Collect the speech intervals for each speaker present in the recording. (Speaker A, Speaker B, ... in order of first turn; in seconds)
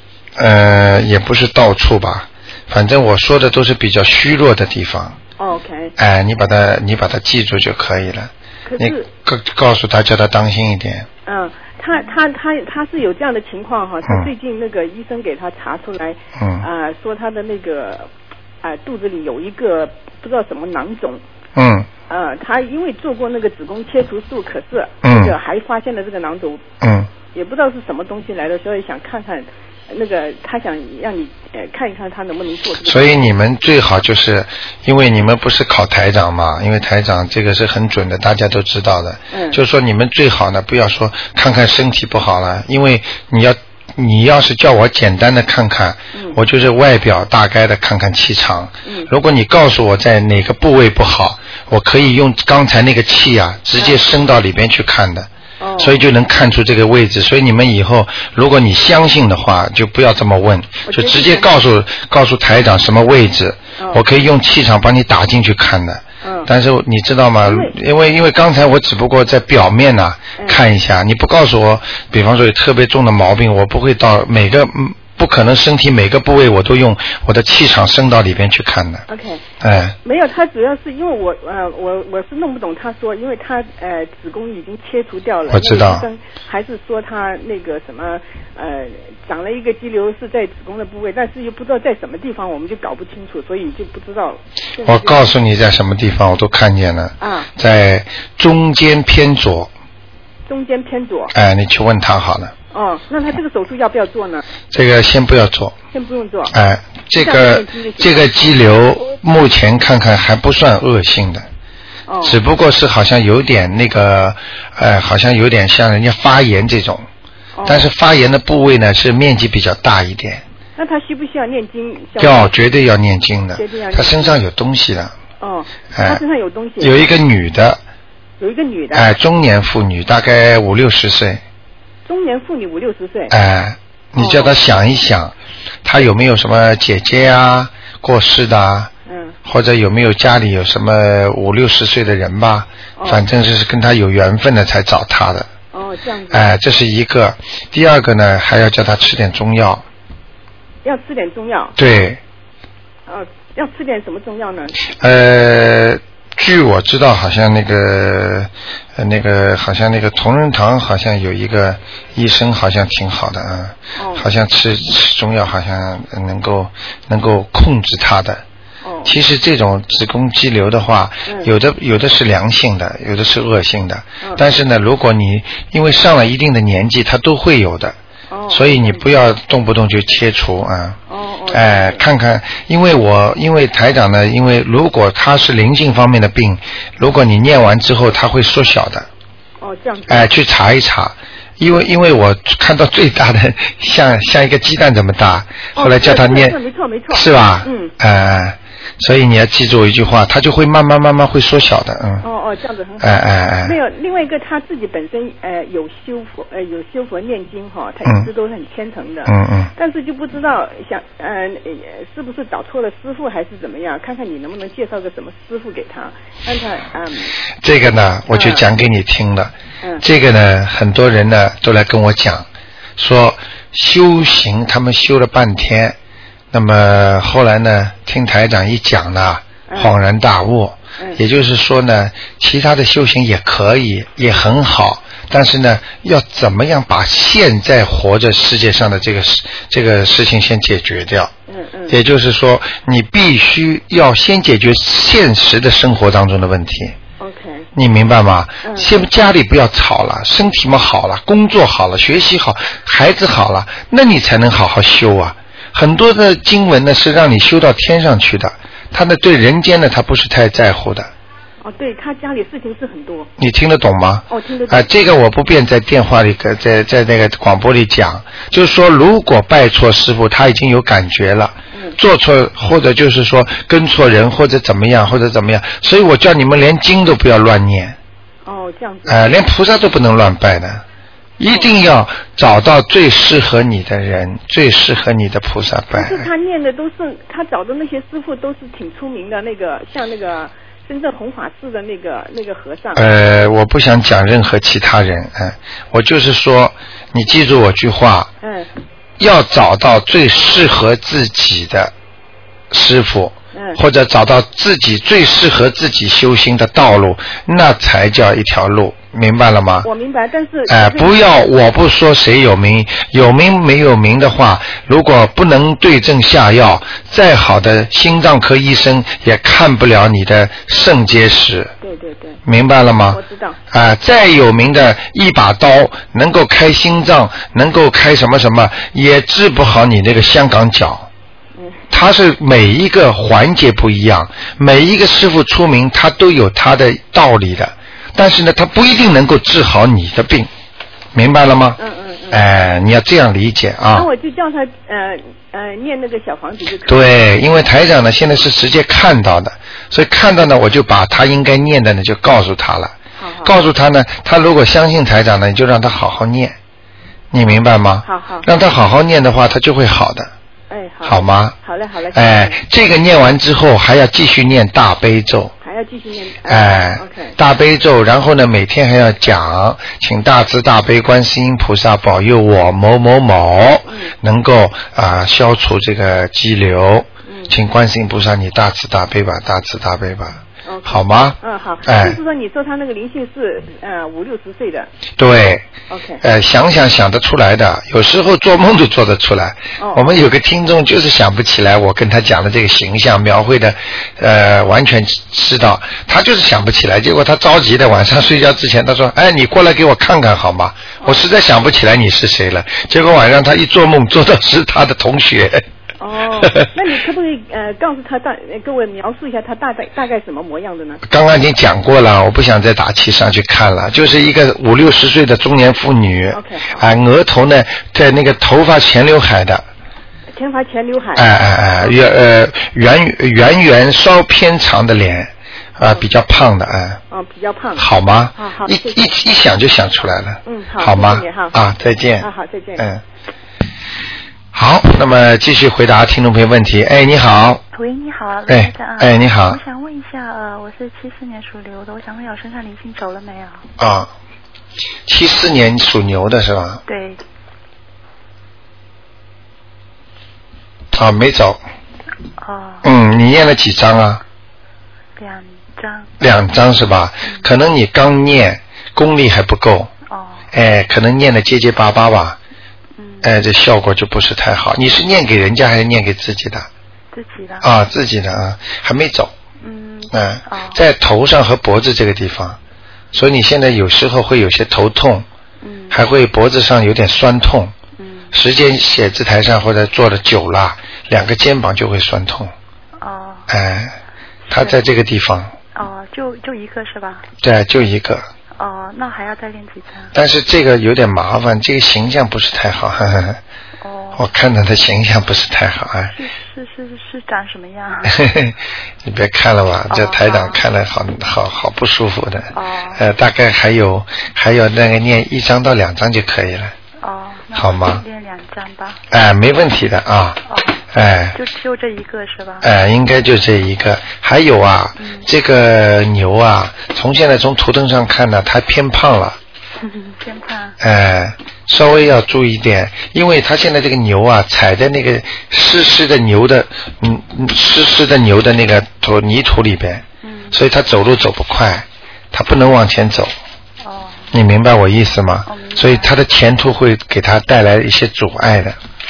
Speaker A: 0.3-5.2, 6.0-11.1, 16.4-16.6, 21.5-21.9, 25.0-25.4, 26.8-27.1, 32.8-79.0, 79.6-79.9, 85.5-86.1, 94.8-99.7, 101.3-102.5, 104.7-105.7, 106.5-111.5, 112.2-117.1, 117.6-120.4, 122.2-125.1, 125.9-126.2, 126.8-127.8, 128.9-131.4, 133.3-135.3, 135.8-138.9, 139.4-145.5, 146.3-149.8, 151.8-152.2, 155.0-168.4, 169.0-178.0, 178.5-181.0, 181.5-189.1, 190.1-196.6, 197.1-202.2, 203.0-203.8, 208.0-208.3, 209.2-209.7, 217.6-226.0, 226.5-241.3, 241.9-246.9, 247.7-261.1, 263.4-278.0, 279.1-280.8, 281.4-286.3, 292.9-298.3, 299.2-301.9, 302.7-309.9, 310.7-321.7, 322.4-331.1, 331.9-340.5, 341.1-341.8, 342.3-344.1, 346.9-356.6, 357.3-360.3, 361.0-361.6, 362.1-365.5, 366.4-382.2, 385.2-385.7, 386.2-405.6, 406.4-406.7, 411.1-419.6, 421.1-427.0, 427.8-433.0, 434.5-437.6, 438.5-439.6, 443.8-444.1, 445.1-446.8, 450.9-451.6, 452.8-454.2, 456.2-459.9, 460.5-462.4, 463.2-466.7, 467.6-469.3, 470.1-472.6, 473.1-475.2, 475.9-477.7, 478.3-482.5, 483.5-484.0, 484.5-485.5, 487.4-488.3, 490.1-493.4, 494.1-496.1, 498.1-506.7, 507.5-508.0, 509.1-510.4, 510.9-511.4, 512.6-519.4, 520.8-533.3, 534.3-538.8
Speaker B: 5.4-5.9, 8.7-9.1, 11.2-18.1, 18.6-21.2, 22.1-26.6, 27.3-33.3, 39.3-39.6, 48.8-49.1, 55.6-56.0, 60.8-61.6, 63.8-64.0, 66.2-66.5, 67.4-67.7, 79.1-95.2, 97.2-97.5, 100.5-101.3, 102.7-104.4, 105.9-106.5, 107.1-108.5, 112.1-112.4, 117.5-117.9, 120.8-122.6, 123.5-124.4, 125.4-127.0, 128.4-129.1, 132.0-133.3, 134.2-134.6, 139.1-139.3, 143.0-143.2, 145.7-146.5, 150.8-151.8, 153.1-154.8, 163.9-164.3, 168.8-169.1, 171.2-171.5, 178.3-179.2, 181.1-182.0, 189.6-190.3, 195.8-197.9, 202.2-217.3, 218.3-218.6, 229.7-229.9, 231.0-231.2, 241.5-242.0, 247.2-247.7, 248.6-248.9, 261.6-263.3, 264.3-264.9, 271.7-272.0, 278.4-279.4, 281.5-281.7, 285.9-293.0, 298.4-298.7, 303.5-303.8, 309.8-311.3, 321.8-322.4, 323.1-323.6, 331.6-331.8, 341.8-342.5, 343.9-347.1, 353.2-353.5, 358.0-358.5, 360.7-362.6, 365.6-367.4, 373.9-374.1, 377.2-377.5, 380.6-384.9, 385.9-386.2, 389.8-390.2, 406.0-411.0, 416.3-416.9, 420.3-422.0, 427.1-427.8, 428.4-429.0, 430.4-431.6, 432.2-432.9
Speaker C: 437.7-443.6, 446.9-447.2, 452.4-452.9, 455.2-456.1, 457.2-457.5, 460.1-460.5, 463.0-463.3, 467.1-467.7, 469.6-470.8, 475.6-476.0, 478.0-478.3, 483.0-483.5, 484.4-484.9, 485.7-487.3, 488.6-490.1, 493.8-494.3, 496.1-498.2, 499.9-500.6, 502.5-503.0, 507.0-509.0, 510.5-512.7, 515.0-515.3, 519.8-520.8, 530.2-530.6, 533.8-534.3, 535.5-536.2